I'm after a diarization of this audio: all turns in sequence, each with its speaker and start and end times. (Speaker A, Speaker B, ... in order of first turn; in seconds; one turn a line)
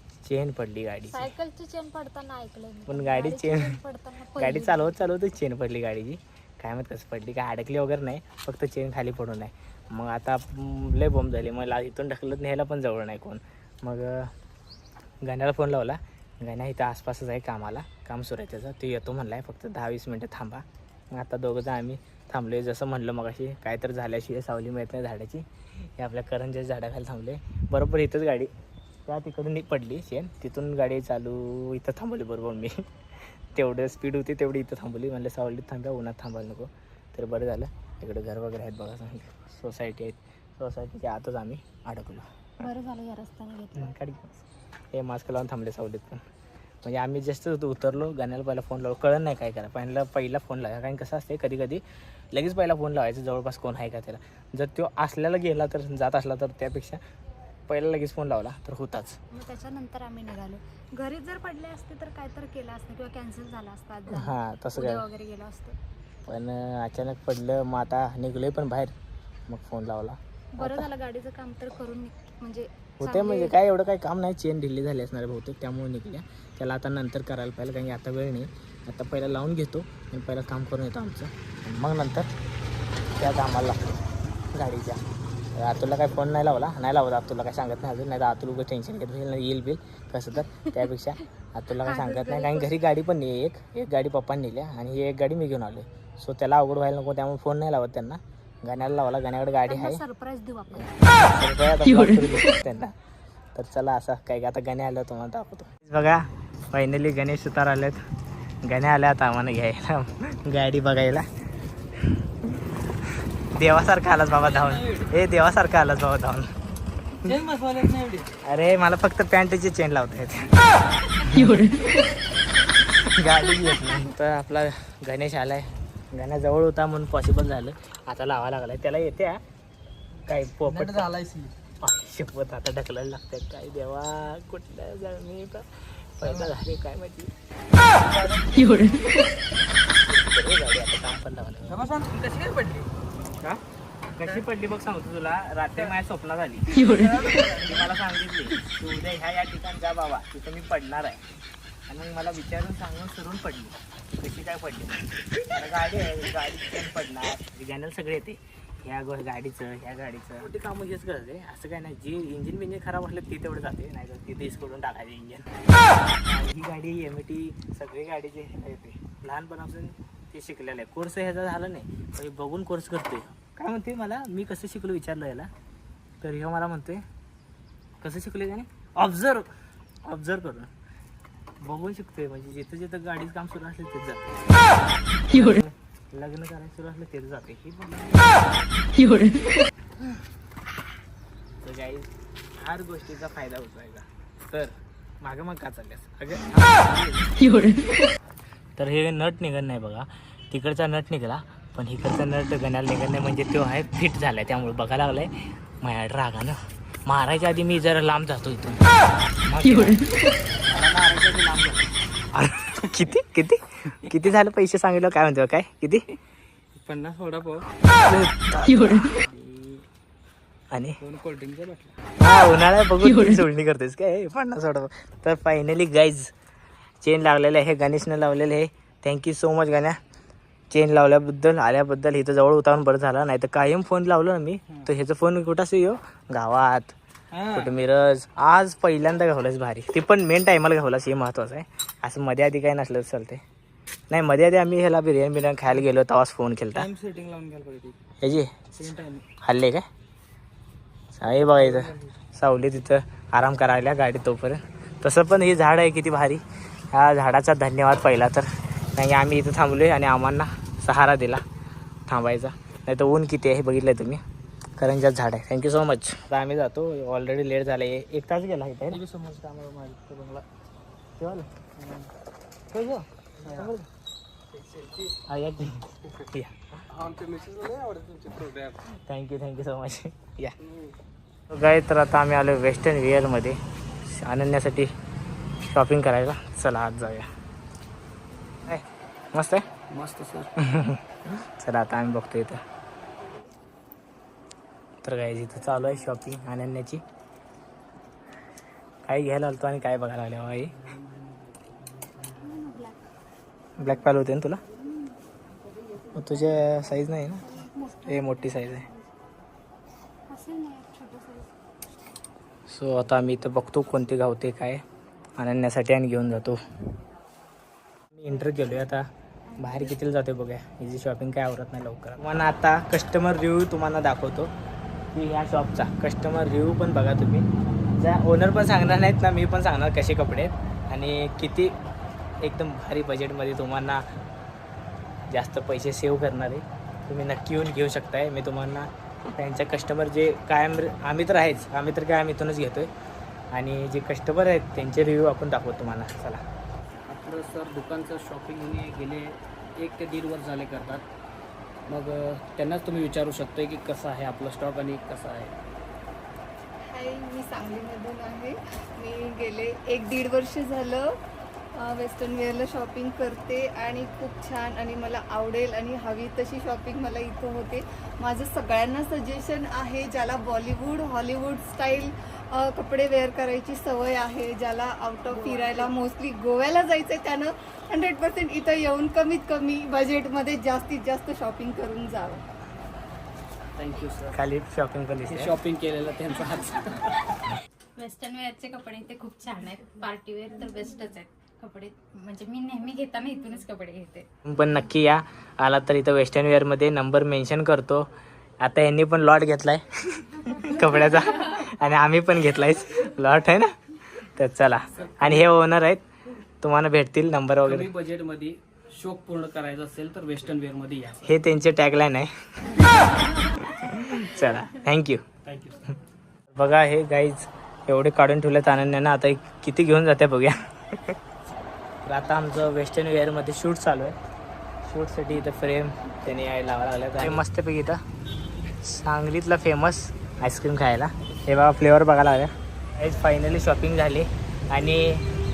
Speaker A: 0.2-1.3
Speaker B: 1.1-5.0
Speaker A: 2.9-3.8
Speaker A: 4.4-14.3
Speaker A: 15.2-28.5
Speaker A: 29.1-32.8
Speaker A: 33.5-42.3
Speaker B: 42.6-44.0
Speaker A: 43.8-44.3
Speaker A: 44.9-46.2
Speaker A: 46.8-57.0
Speaker A: 57.7-59.2
Speaker B: 59.3-65.8
Speaker A: 64.1-65.0
Speaker A: 66.3-68.9
Speaker A: 69.5-70.9
Speaker B: 70.6-73.6
Speaker A: 73.0-82.3
Speaker A: 83.2-84.0
Speaker A: 84.5-85.0
Speaker A: 85.5-100.0
Speaker B: 90.5-90.8
Speaker B: 91.8-92.7
Speaker B: 99.7-101.0
Speaker A: 100.7-102.9
Speaker A: 103.5-108.0
Speaker A: 108.6-111.3
Speaker A: 113.5-116.5
Speaker C: 117.4-118.3
Speaker A: 118.4-121.8
Speaker A: 122.6-129.4
Speaker A: 130.3-131.2
Speaker C: 130.8-131.5
Speaker A: 131.8-137.3
Speaker A: 138.0-138.5
Speaker C: 138.3-138.8
Speaker A: 139.9-141.9
Speaker C: 141.8-142.9
Speaker A: 144.2-151.2
Speaker C: 147.2-147.6
Speaker A: 151.9-165.5
Speaker A: 166.2-175.5
Speaker A: 176.2-177.1
Speaker A: 178.0-179.5
Speaker A: 180.1-180.7
Speaker A: 181.6-184.4
Speaker A: 185.3-189.2
Speaker A: 191.6-197.7
Speaker A: 198.8-208.8
Speaker A: 209.5-210.1
Speaker C: 210.7-211.8
Speaker A: 212.3-216.1
Speaker C: 216.8-217.7
Speaker A: 217.8-219.2
Speaker C: 219.2-219.8
Speaker A: 220.7-221.0
Speaker C: 221.0-222.0
Speaker A: 222.2-226.3
Speaker A: 227.0-230.0
Speaker A: 230.7-236.9
Speaker C: 237.3-237.6
Speaker A: 237.5-243.4
Speaker A: 244.1-246.9
Speaker C: 246.8-248.0
Speaker A: 248.2-248.7
Speaker C: 248.8-249.2
Speaker A: 249.4-249.9
Speaker A: 251.2-261.4
Speaker C: 251.6-251.9
Speaker A: 262.1-264.2
Speaker A: 264.8-269.0
Speaker C: 268.9-270.4
Speaker A: 271.2-271.5
Speaker C: 271.8-272.1
Speaker A: 272.7-273.9
Speaker A: 275.3-276.8
Speaker C: 277.0-278.6
Speaker A: 279.0-280.6
Speaker A: 281.5-284.9
Speaker A: 285.6-287.3
Speaker A: 288.7-289.7
Speaker C: 289.9-290.5
Speaker A: 290.6-292.6
Speaker A: 295.0-297.0
Speaker A: 299.1-300.8
Speaker B: 302.2-303.0
Speaker A: 303.8-304.6
Speaker A: 306.1-307.4
Speaker B: 306.7-308.7
Speaker A: 308.1-308.9
Speaker B: 310.3-311.5
Speaker A: 312.7-314.8
Speaker A: 315.4-316.6
Speaker A: 318.1-319.1
Speaker B: 319.5-319.8
Speaker A: 319.6-324.5
Speaker A: 325.1-331.8
Speaker A: 332.4-334.1
Speaker A: 335.3-342.9
Speaker A: 343.5-346.4
Speaker C: 347.1-351.1
Speaker C: 351.9-355.6
Speaker D: 356.9-361.1
Speaker D: 361.8-382.4
Speaker C: 383.7-384.4
Speaker A: 384.3-385.6
Speaker C: 385.3-387.3
Speaker B: 388.0-394.3
Speaker A: 394.5-398.1
Speaker A: 398.6-406.1
Speaker C: 405.0-405.4
Speaker A: 406.6-407.9
Speaker C: 407.6-411.4
Speaker A: 411.2-415.2
Speaker C: 415.4-415.9
Speaker A: 416.5-421.2
Speaker A: 422.1-424.2
Speaker A: 424.9-428.0
Speaker A: 428.8-435.3